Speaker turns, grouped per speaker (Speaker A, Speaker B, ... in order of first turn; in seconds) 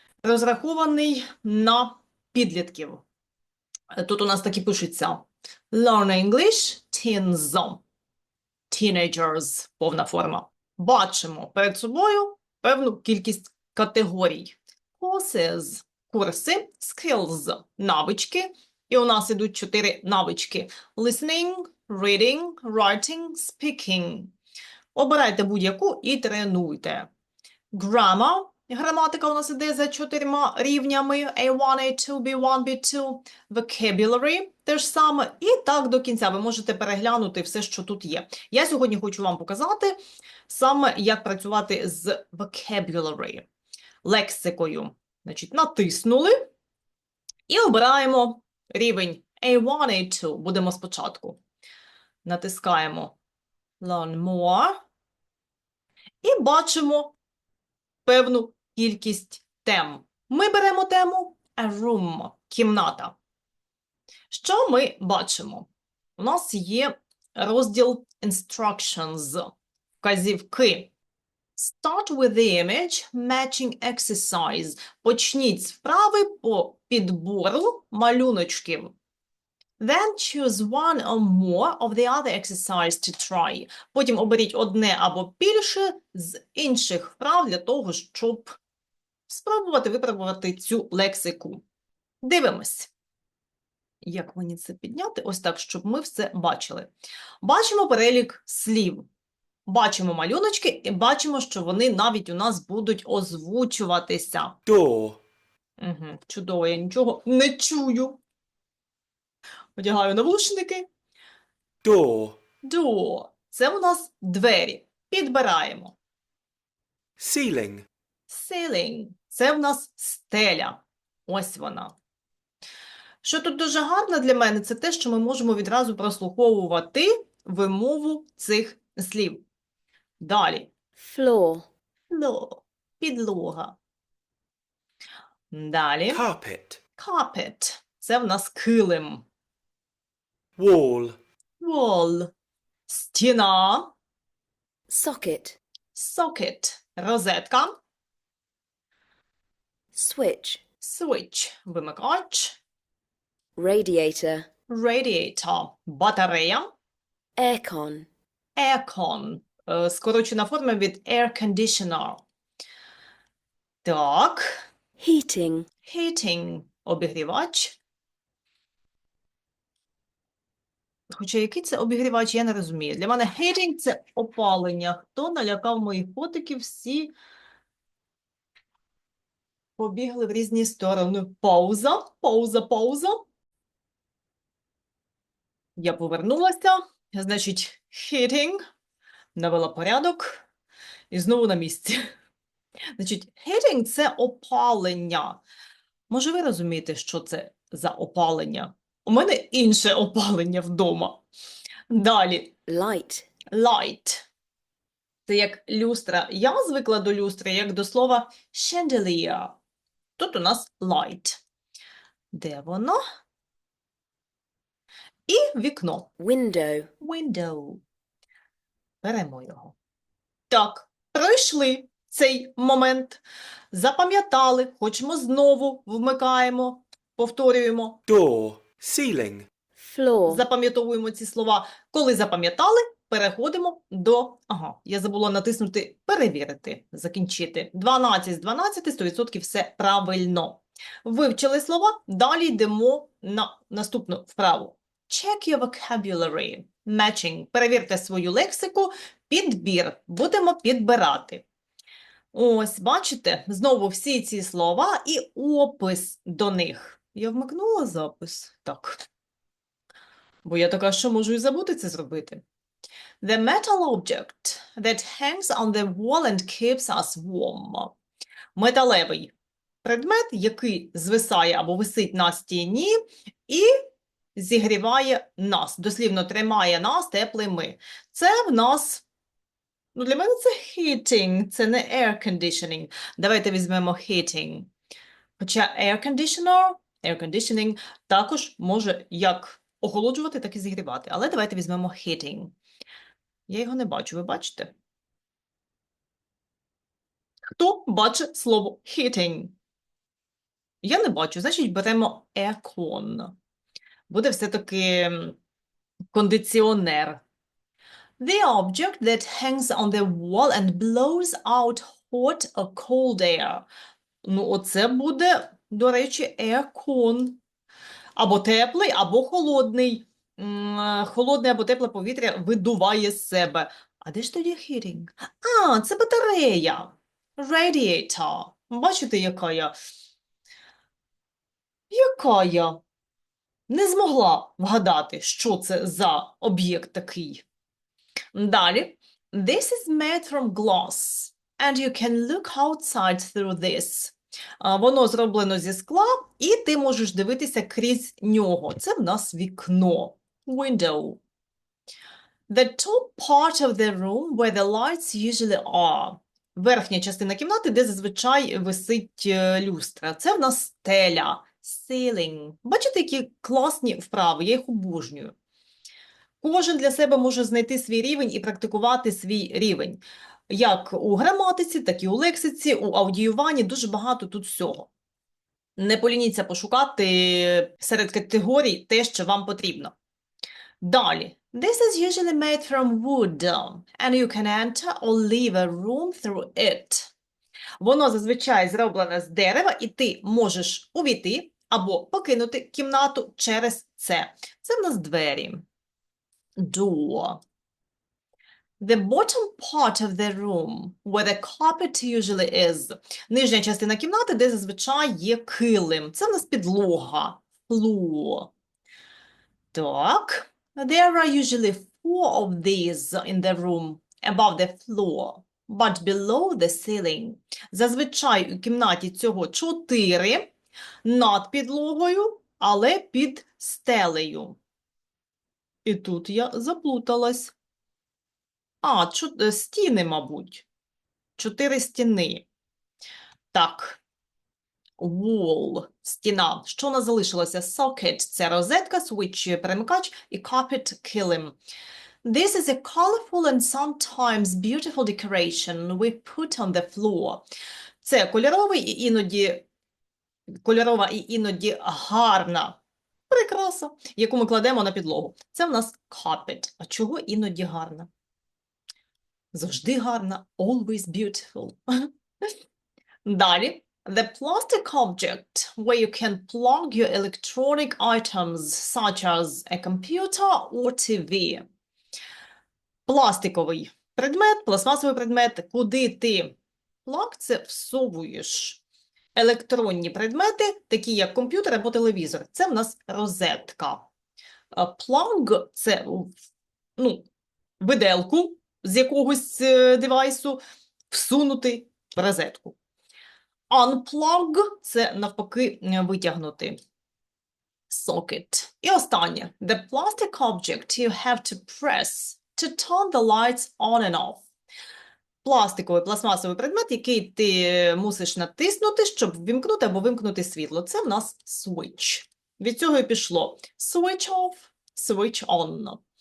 Speaker A: 0.2-3.0, 3.9-7.8, 8.7-24.3, 24.9-27.1, 27.7-40.0, 40.5-43.5, 44.0-46.5, 47.5-51.4, 52.2-53.2, 53.8-54.8, 56.2-57.1, 58.1-63.2, 64.3-70.9, 71.6-79.0, 79.8-88.6, 89.3-91.6, 92.2-92.9, 94.0-96.9, 97.4-99.1, 99.7-104.6, 105.8-108.2, 109.8-110.9, 112.6-116.0, 118.3-121.9, 123.2-129.4, 130.2-130.7, 132.1-133.8, 135.5-136.2, 137.0-139.2, 141.6-142.3, 142.9-143.9, 145.9-147.7, 150.8-152.6, 154.7-156.7, 158.6-162.2, 163.8-164.6, 165.8-167.8, 171.2-177.1, 179.8-183.2, 185.8-188.6, 189.3-190.4, 191.1-192.0, 193.0-195.4, 196.1-201.2, 201.9-202.6, 203.5-204.3, 205.3-209.6, 210.2-211.4, 212.3-213.0, 215.3-216.2, 217.0-217.8, 219.0-219.8, 220.5-223.2, 223.7-228.0, 230.3-251.4, 252.3-259.0, 260.4-262.4, 263.2-267.9, 268.6-269.3, 269.8-272.9, 273.5-273.8, 274.4-279.1, 279.9-284.7, 285.4-292.6, 293.5-294.7, 297.6-299.6, 300.8-303.4, 304.1-305.4, 306.1-307.2, 308.2-313.6, 314.2-317.4, 318.2-329.7, 331.9-332.8, 333.7-337.4, 338.4-351.2, 352.5-365.4, 366.4-374.9, 375.8-379.9, 380.8-387.1, 387.8-395.6, 396.6-397.4, 398.8-408.5, 409.7-420.5, 421.0-424.6, 425.9-427.5, 428.8-430.7, 431.4-432.5, 433.5-434.0, 435.0-441.6, 442.2-447.4, 448.0-449.7, 450.6-452.8, 453.3-458.1, 459.5-462.1, 463.2-471.6, 473.1-478.8, 479.4-484.1, 484.7-486.3, 487.0-487.3, 487.8-492.8, 493.7-496.8, 497.9-504.4, 505.4-516.0
Speaker B: 104.7-105.2, 111.8-112.4, 117.2-117.9, 136.1-136.8, 140.6-141.2, 228.1-229.5
Speaker C: 131.0-131.7, 144.9-145.6, 149.9-150.6, 153.6-154.5, 157.4-158.1, 165.0-165.7, 202.7-203.3, 216.2-216.9, 229.8-230.4